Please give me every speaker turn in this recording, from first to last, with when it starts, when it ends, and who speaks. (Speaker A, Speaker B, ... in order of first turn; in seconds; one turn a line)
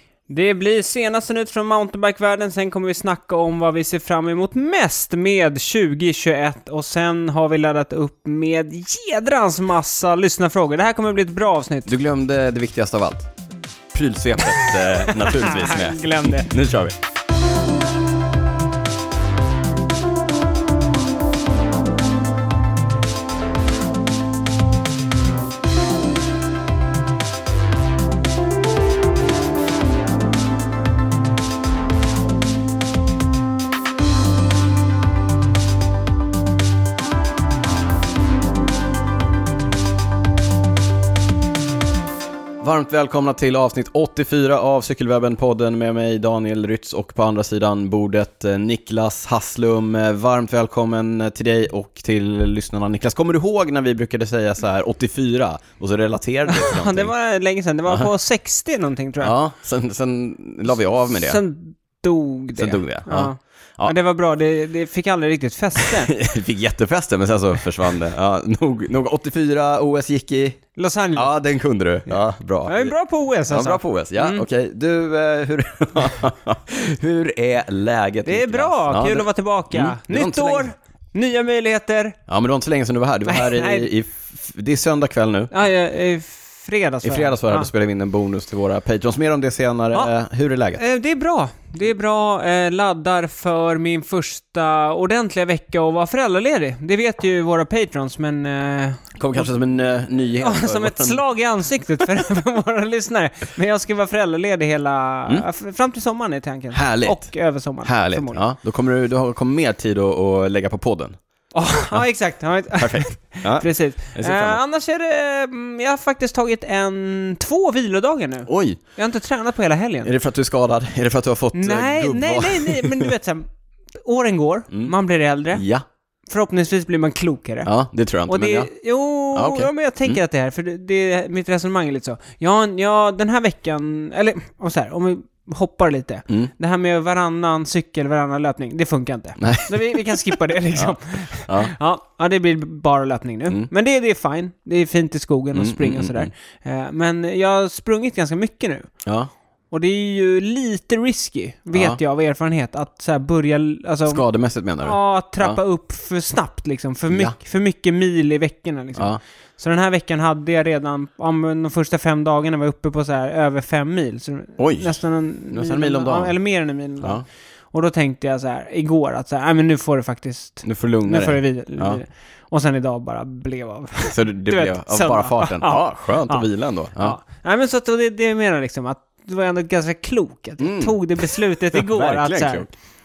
Speaker A: 0.3-11.9
Speaker B: 11.8-13.3
Speaker B: 13.9-16.9
Speaker A: 14.6-16.5
Speaker B: 42.6-57.1
Speaker A: 56.5-59.3
Speaker B: 59.2-61.4
Speaker A: 61.1-66.1
Speaker B: 62.6-63.9
Speaker B: 65.8-70.6
Speaker A: 70.7-71.3
Speaker B: 71.1-72.9
Speaker A: 72.7-74.4
Speaker B: 73.5-80.7
Speaker A: 78.2-82.2
Speaker B: 82.3-85.5
Speaker A: 83.2-83.9
Speaker A: 85.5-87.7
Speaker B: 87.0-90.8
Speaker A: 90.8-99.5
Speaker B: 99.2-101.2
Speaker A: 100.4-108.4
Speaker B: 106.7-107.3
Speaker B: 107.8-111.1
Speaker A: 111.5-120.1
Speaker B: 112.8-114.6
Speaker B: 118.5-118.8
Speaker B: 120.0-123.1
Speaker A: 121.5-123.5
Speaker A: 124.0-125.6
Speaker B: 125.5-125.8
Speaker A: 126.3-127.7
Speaker B: 127.6-128.7
Speaker A: 128.3-148.9
Speaker B: 129.3-130.2
Speaker B: 139.4-141.7
Speaker B: 145.5-146.3
Speaker B: 149.0-149.3
Speaker A: 149.7-154.2
Speaker B: 151.7-152.0
Speaker B: 154.1-155.6
Speaker A: 154.8-167.2
Speaker B: 157.1-157.3
Speaker B: 158.9-159.2
Speaker B: 164.6-165.0
Speaker B: 165.5-166.3
Speaker A: 167.7-176.5
Speaker B: 170.6-172.0
Speaker B: 174.1-177.2
Speaker A: 177.0-182.7
Speaker B: 180.6-182.7